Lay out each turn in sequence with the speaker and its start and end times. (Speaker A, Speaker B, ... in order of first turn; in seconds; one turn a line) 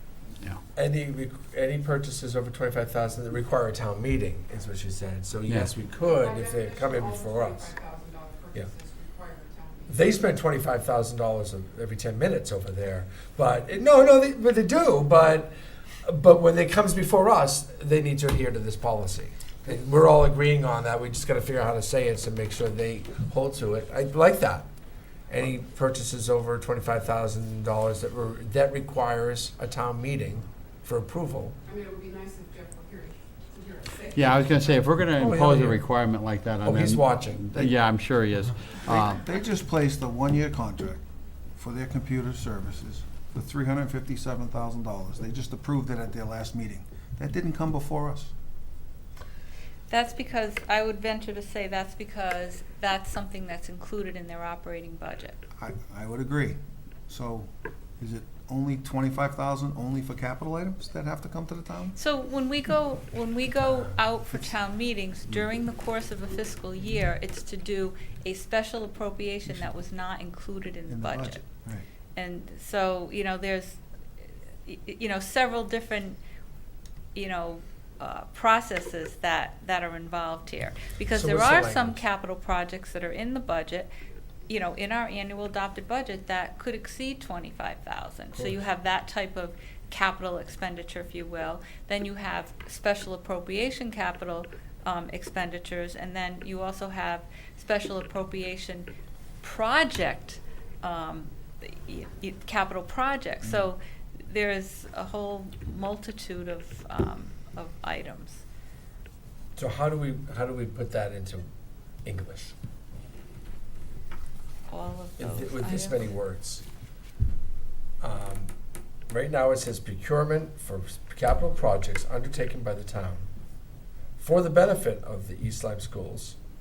Speaker A: 0.8-7.8
Speaker B: 6.0-9.9
Speaker A: 9.9-15.5
Speaker A: 16.1-24.7
Speaker A: 25.3-31.6
Speaker B: 31.7-34.8
Speaker C: 34.1-39.3
Speaker A: 35.2-35.8
Speaker A: 36.6-37.7
Speaker D: 38.9-41.0
Speaker D: 41.6-48.3
Speaker E: 49.9-55.4
Speaker D: 55.6-62.0
Speaker E: 62.0-71.4
Speaker D: 70.9-71.8
Speaker E: 72.2-73.8
Speaker E: 74.7-76.2
Speaker E: 77.2-83.9
Speaker A: 81.1-82.0
Speaker E: 84.5-98.9
Speaker A: 88.3-88.6
Speaker E: 99.4-108.4
Speaker A: 109.6-111.5
Speaker A: 112.0-112.5
Speaker E: 114.7-116.1
Speaker A: 115.2-116.7
Speaker A: 118.0-118.5
Speaker A: 119.1-123.3
Speaker A: 124.2-126.4